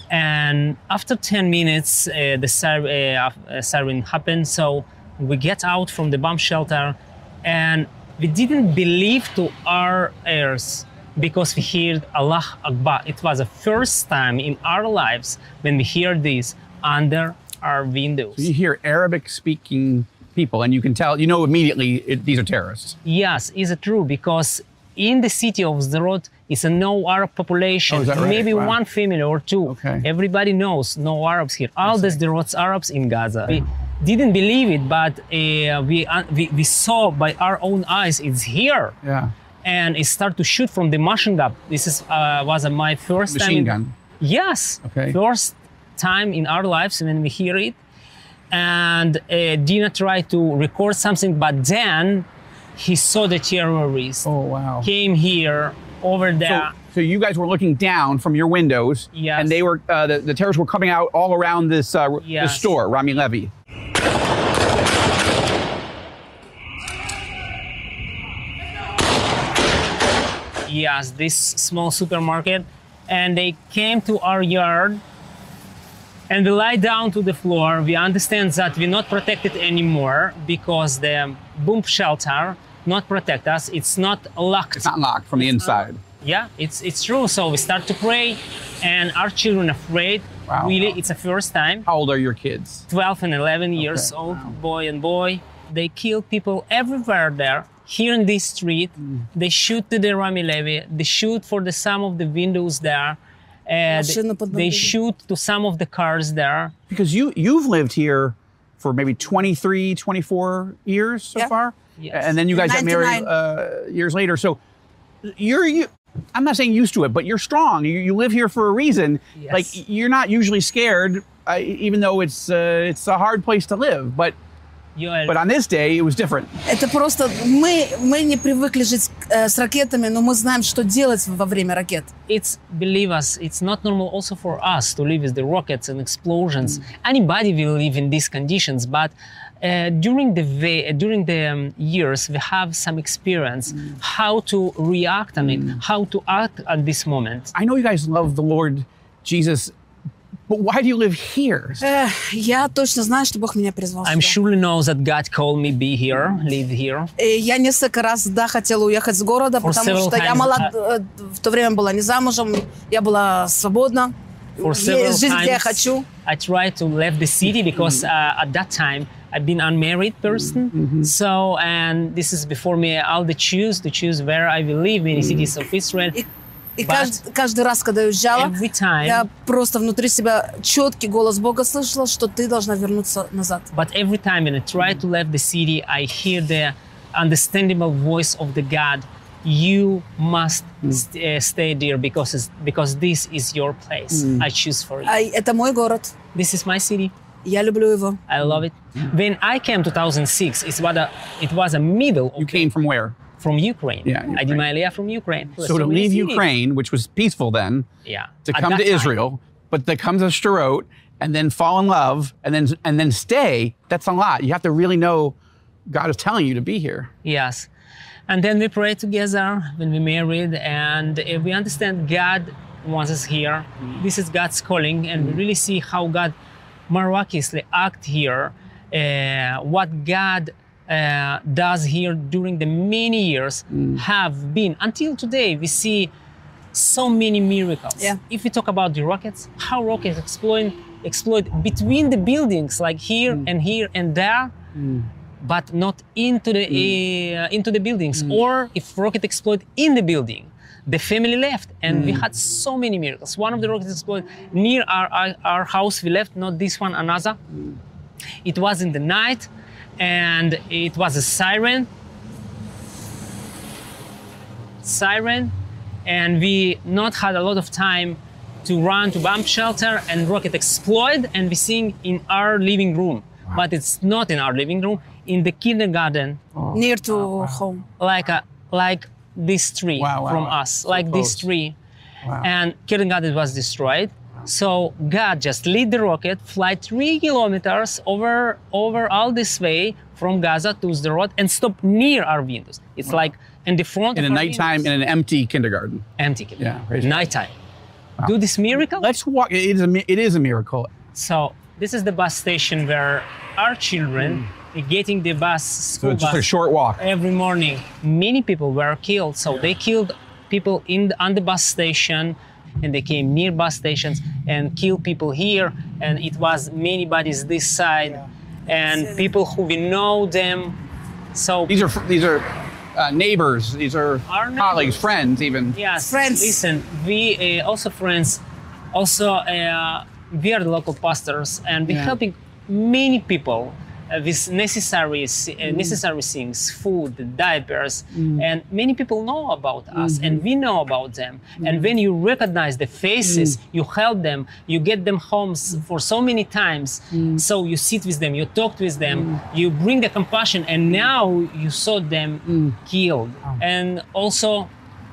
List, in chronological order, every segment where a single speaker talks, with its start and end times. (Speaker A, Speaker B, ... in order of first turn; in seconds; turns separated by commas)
Speaker A: 0.1-18.5, Speaker B: 18.4-23.0, Speaker A: 23.0-39.0, Speaker B: 27.9-28.8, Speaker B: 29.7-30.1, Speaker B: 31.9-32.2, Speaker B: 39.0-39.3, Speaker A: 39.6-47.8, Speaker B: 43.3-43.9, Speaker B: 44.8-45.2, Speaker A: 48.5-54.3, Speaker B: 54.2-54.9, Speaker A: 54.8-56.7, Speaker B: 56.5-63.5, Speaker A: 59.1-59.6, Speaker A: 62.2-62.7, Speaker A: 70.7-75.0, Speaker A: 76.3-91.9, Speaker B: 84.8-86.0, Speaker B: 90.5-91.0, Speaker B: 91.9-92.9, Speaker A: 92.9-106.7, Speaker B: 93.8-94.5, Speaker C: 103.9-104.9, Speaker B: 106.9-114.6, Speaker A: 112.0-112.3, Speaker C: 112.5-113.3, Speaker B: 115.2-124.3, Speaker A: 119.3-119.8, Speaker A: 125.0-125.3, Speaker B: 125.3-126.6, Speaker C: 126.7-132.1, Speaker A: 132.3-147.5, Speaker B: 145.5-145.8, Speaker B: 147.5-149.7, Speaker B: 150.5-151.8, Speaker C: 151.8-154.3, Speaker A: 154.0-157.1, Speaker C: 157.2-166.1, Speaker A: 159.6-160.7, Speaker A: 164.6-176.2, Speaker B: 170.7-171.1, Speaker B: 175.2-175.5, Speaker C: 176.8-183.7, Speaker A: 176.8-177.2, Speaker A: 178.3-179.3, Speaker A: 183.7-195.1, Speaker B: 194.1-194.4, Speaker C: 195.1-196.1, Speaker A: 196.3-197.1, Speaker C: 197.4-198.2, Speaker A: 198.3-202.7, Speaker B: 202.4-203.2, Speaker A: 203.4-206.4, Speaker B: 204.1-204.6, Speaker B: 205.6-207.9, Speaker A: 208.1-209.2, Speaker B: 208.5-215.4, Speaker B: 215.9-217.1, Speaker A: 217.2-217.7, Speaker A: 218.3-226.3, Speaker A: 226.9-236.1, Speaker A: 236.7-244.5, Speaker B: 244.8-245.1, Speaker A: 245.4-257.4, Speaker B: 251.9-252.2, Speaker A: 258.4-261.9, Speaker A: 264.8-265.5, Speaker A: 266.1-276.4, Speaker B: 276.6-276.8, Speaker C: 276.7-277.8, Speaker A: 278.0-281.8, Speaker B: 280.0-281.4, Speaker A: 282.4-294.9, Speaker B: 294.1-296.1, Speaker A: 296.2-297.5, Speaker B: 296.6-297.2, Speaker A: 298.2-299.1, Speaker B: 299.0-300.9, Speaker A: 301.1-306.5, Speaker B: 306.0-307.0, Speaker A: 307.0-320.8, Speaker A: 321.3-321.8, Speaker B: 321.7-325.8, Speaker A: 324.3-325.0, Speaker A: 325.7-354.7, Speaker C: 326.0-326.6, Speaker B: 331.9-332.1, Speaker B: 335.7-335.9, Speaker B: 340.0-340.4, Speaker B: 343.3-343.5